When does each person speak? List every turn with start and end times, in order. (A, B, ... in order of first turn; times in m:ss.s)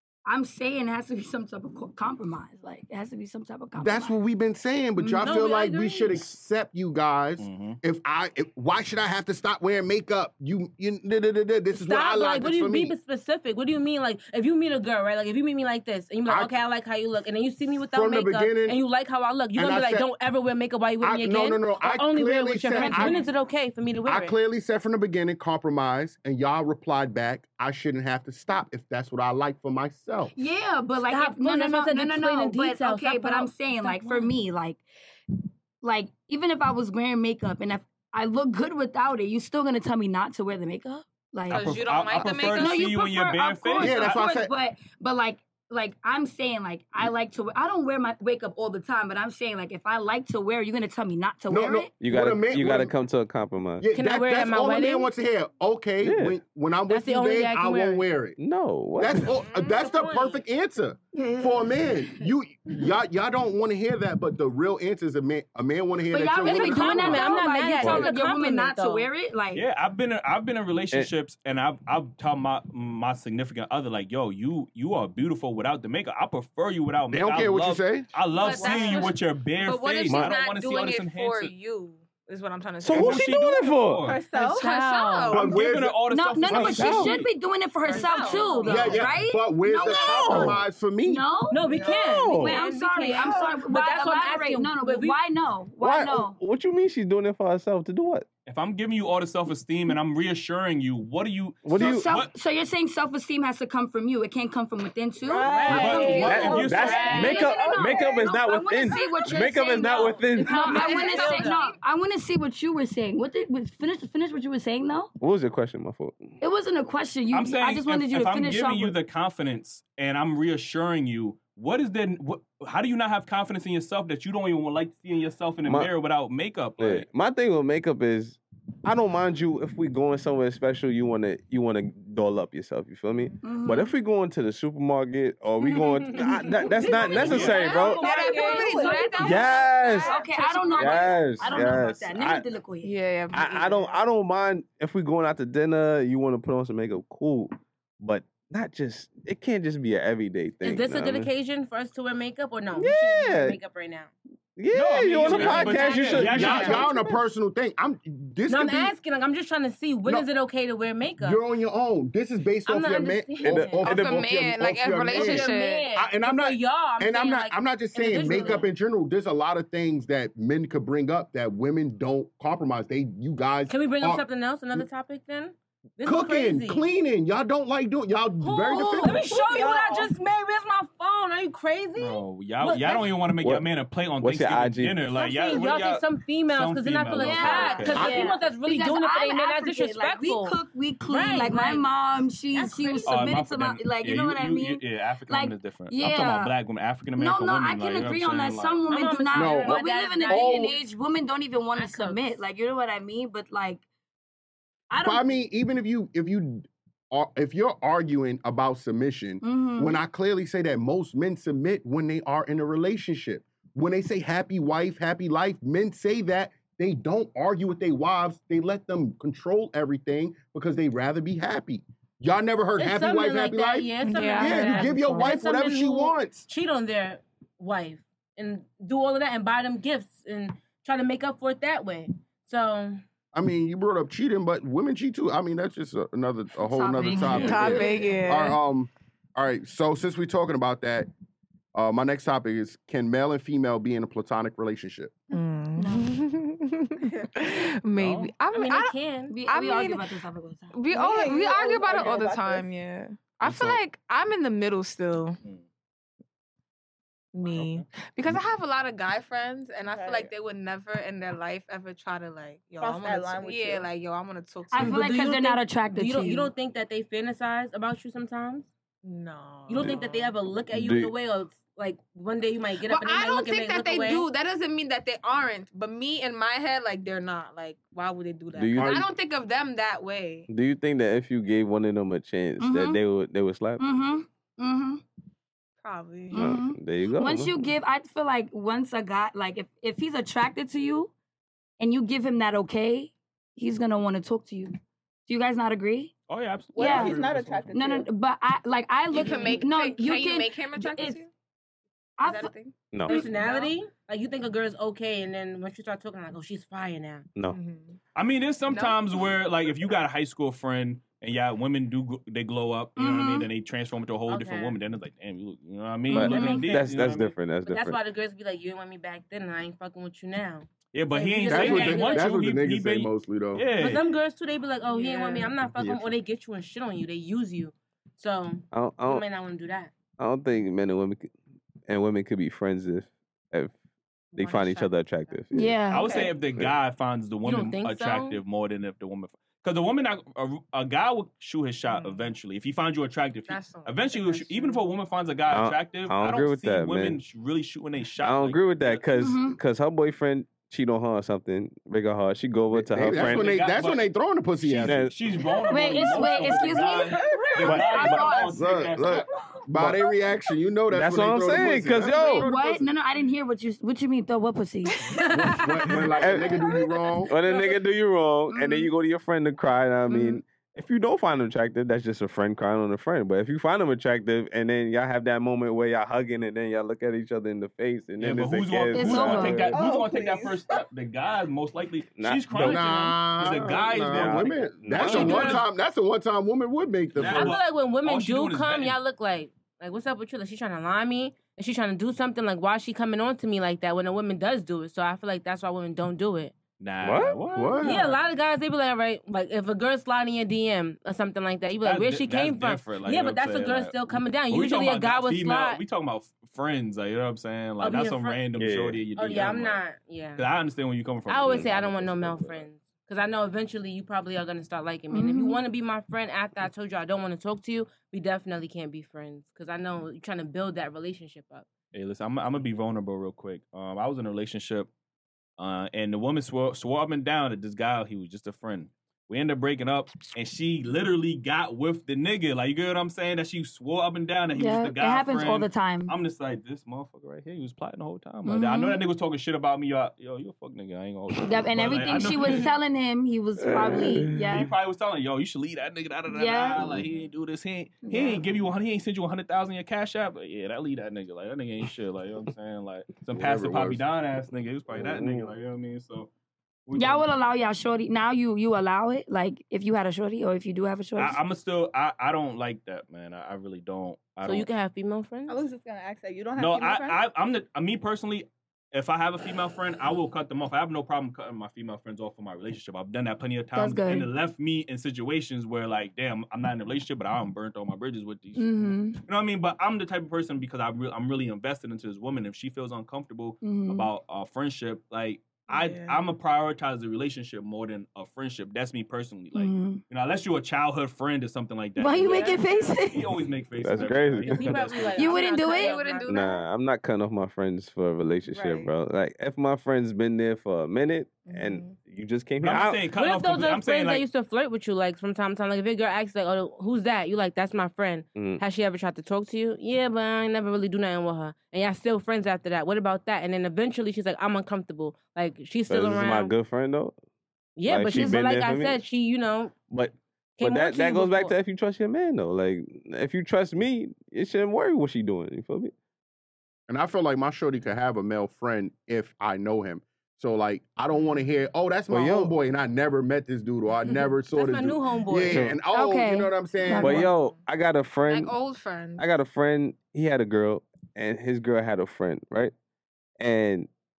0:00.3-0:04.2 A
0:03.8-0:13.0 B
0:05.0-0:05.4 A
0:05.2-0:06.2 C
0:07.4-0:07.8 D
0:11.7-0:24.4 C
0:16.3-0:16.5 B
0:17.9-0:18.8 B
0:19.6-0:20.1 B
0:21.0-0:23.2 B
0:22.7-0:23.3 A
0:24.0-0:30.3 B
0:30.3-0:34.8 A
0:31.1-0:34.3 C
0:35.8-0:41.7 A
0:41.5-0:42.9 E
0:41.5-0:44.2 D
0:42.4-0:51.9 A
0:43.8-0:44.5 B
0:51.5-0:52.9 B
0:52.0-0:53.9 F
0:53.8-0:58.4 B
0:53.9-0:55.1 C
0:56.0-0:56.4 F
0:56.9-0:58.1 C
0:58.4-0:59.3 F
0:59.0-1:07.4 B
0:59.5-0:59.8 E
0:59.5-1:00.4 C
1:01.1-1:02.2 A
1:06.1-1:09.6 A
1:06.4-1:09.1 C
1:09.5-1:21.5 D
1:17.1-1:18.1 B
1:18.3-1:23.4 E
1:18.5-1:18.9 C
1:20.1-1:20.3 F
1:22.8-1:24.1 F
1:22.9-1:24.2 D
1:24.0-1:24.7 G
1:24.3-1:25.6 E
1:24.6-1:25.4 C
1:25.3-1:26.0 B
1:25.3-1:27.3 D
1:26.1-1:31.6 A
1:26.5-1:27.2 F
1:27.9-1:29.0 E
1:27.9-1:29.0 C
1:28.7-1:31.3 B
1:29.8-1:30.6 F
1:31.5-1:35.2 C
1:31.8-1:32.6 F
1:32.3-1:36.4 A
1:33.1-1:33.6 G
1:35.8-1:38.3 F
1:38.5-1:42.3 D
1:41.6-1:42.1 F
1:41.7-1:55.1 A
1:45.2-1:48.3 G
1:45.4-1:47.6 C
1:45.7-1:47.3 D
1:46.2-1:50.6 F
1:50.4-1:51.7 C
1:50.5-1:51.7 E
1:55.2-1:56.3 F
1:56.4-1:59.0 A
1:57.3-2:07.1 D
2:05.6-2:05.9 F
2:06.8-2:18.0 F
2:13.4-2:13.9 A
2:15.6-2:18.9 C
2:16.9-2:19.5 G
2:16.9-2:21.8 E
2:17.1-2:17.7 D
2:18.0-2:22.9 A
2:19.2-2:20.2 F
2:20.8-2:22.4 F
2:22.8-2:24.0 E
2:23.3-2:31.3 F
2:30.6-2:34.1 C
2:32.8-2:33.6 F
2:34.6-2:37.2 F
2:34.7-2:36.9 D
2:35.2-2:36.9 C
2:36.2-2:38.9 B
2:38.5-2:41.4 C
2:41.2-2:54.8 B
2:42.6-2:44.1 C
2:43.4-2:43.9 F
2:43.8-2:45.9 E
2:45.0-2:48.7 C
2:53.7-2:56.9 C
2:56.0-2:59.3 B
2:58.4-3:03.1 C
2:58.7-2:59.3 A
2:59.3-3:00.1 G
3:02.0-3:08.2 D
3:04.2-3:05.0 F
3:05.1-3:11.9 C
3:07.1-3:16.5 A
3:12.5-3:13.2 C
3:13.1-3:18.8 D
3:17.2-3:23.8 A
3:18.9-3:20.7 C
3:19.4-3:20.8 B
3:21.8-3:22.2 C
3:24.9-3:25.2 A
3:25.0-3:46.5 B
3:29.4-3:30.0 A
3:42.8-3:53.0 C
3:44.0-3:45.0 E
3:53.3-4:01.1 B
3:56.7-3:58.2 A
3:57.3-3:58.6 E
4:01.7-4:05.2 B
4:05.3-4:10.1 E
4:05.8-4:06.1 A
4:08.0-4:08.4 D
4:08.5-4:09.4 C
4:09.3-4:10.8 A
4:10.7-4:15.4 E
4:10.9-4:12.7 G
4:13.4-4:13.8 D
4:17.3-4:25.0 E
4:17.4-4:17.8 D
4:19.9-4:20.3 G
4:22.8-4:23.9 G
4:24.7-4:26.5 A
4:24.8-4:28.7 C
4:29.0-4:30.4 E
4:29.7-4:34.3 C
4:30.7-4:31.1 F
4:32.8-4:40.5 E
4:38.5-4:39.0 F
4:38.8-4:39.1 B
4:40.5-4:43.8 F
4:42.6-4:43.0 A
4:43.8-4:45.0 A
4:45.8-4:46.4 E
4:46.3-4:51.1 A
4:46.3-4:47.6 F
4:51.8-4:54.8 A
4:55.3-4:56.1 A
4:56.3-4:57.7 D
4:56.8-4:58.1 G
4:56.8-4:57.2 A
4:57.7-5:01.2 A
4:59.1-5:01.3 E
5:02.2-5:02.5 A
5:02.2-5:03.7 E
5:02.9-5:03.2 F
5:03.1-5:07.3 C
5:07.5-5:08.0 E
5:08.2-5:17.3 D
5:08.7-5:09.0 E
5:13.0-5:13.5 A
5:14.3-5:14.8 C
5:16.1-5:16.7 A
5:16.1-5:18.0 F
5:16.2-5:16.7 C
5:17.7-5:22.4 C
5:20.9-5:24.0 D
5:21.5-5:23.7 B
5:23.7-5:29.9 C
5:24.9-5:25.5 E
5:25.7-5:26.1 F
5:28.7-5:29.2 F
5:30.2-5:31.3 F
5:31.9-5:33.7 F
5:34.3-5:35.4 E
5:34.4-5:35.8 F
5:35.5-5:36.3 A
5:35.9-5:49.0 D
5:37.4-5:38.4 C
5:41.9-5:42.3 E
5:43.5-5:44.9 E
5:45.5-5:47.2 F
5:48.2-5:53.5 F
5:49.2-5:49.6 A
5:52.7-5:55.1 B
5:53.0-5:54.1 D
5:54.6-5:59.3 D
5:54.9-5:55.1 F
5:55.7-5:58.6 A
5:57.6-5:58.1 F
5:58.6-6:02.9 B
5:59.8-6:00.0 F
6:00.9-6:02.5 F
6:02.1-6:06.0 A
6:05.3-6:07.3 B
6:06.1-6:06.7 F
6:07.3-6:19.7 F
6:08.5-6:08.9 A
6:10.1-6:10.4 A
6:18.2-6:25.7 D
6:18.9-6:19.7 A
6:19.7-6:20.8 G
6:22.2-6:22.9 F
6:22.5-6:27.6 B
6:24.1-6:25.6 F
6:25.1-6:25.6 C
6:27.2-6:29.0 D
6:27.3-6:36.6 C
6:36.8-6:37.8 D
6:37.0-6:38.0 F
6:37.6-6:38.1 B
6:37.8-6:45.8 C
6:41.8-6:49.8 D
6:47.8-6:48.4 C
6:48.6-6:49.0 F
6:49.2-6:50.5 C
6:50.4-6:52.7 D
6:51.3-7:01.7 C
6:55.1-6:55.6 A
7:01.9-7:04.9 D
7:05.6-7:22.7 D
7:14.6-7:16.1 A
7:18.4-7:19.0 A
7:21.4-7:24.7 A
7:23.6-7:24.4 F
7:24.3-7:36.3 D
7:26.3-7:26.9 A
7:28.0-7:28.4 A
7:33.4-7:34.0 B
7:34.9-7:35.5 F
7:36.9-7:37.3 D
7:36.9-7:41.4 A
7:41.2-7:44.7 D
7:44.4-7:45.6 C
7:45.5-7:47.2 G
7:46.6-8:15.3 D
7:53.8-7:54.3 A
7:58.6-7:59.2 A
8:03.6-8:04.1 A
8:05.7-8:06.2 E
8:09.6-8:10.0 A
8:12.0-8:13.3 A
8:12.3-8:12.7 E
8:13.8-8:14.7 F
8:14.5-8:16.4 C
8:15.1-8:16.6 E
8:15.2-8:16.0 A
8:16.3-8:23.0 F
8:18.5-8:18.9 E
8:21.5-8:22.0 E
8:22.6-8:24.2 D
8:23.1-8:36.5 C
8:28.4-8:28.6 F
8:35.9-8:37.2 F
8:37.8-8:39.8 C
8:37.9-8:39.0 F
8:38.1-8:38.4 A
8:39.9-8:45.9 F
8:40.6-8:41.5 C
8:46.9-8:57.3 B
8:52.1-8:52.6 F
8:54.5-8:55.7 C
8:55.5-8:55.8 F
8:55.9-8:57.3 A
8:57.0-8:58.5 F
8:58.3-8:59.3 E
8:59.2-9:02.7 F
9:03.4-9:03.9 F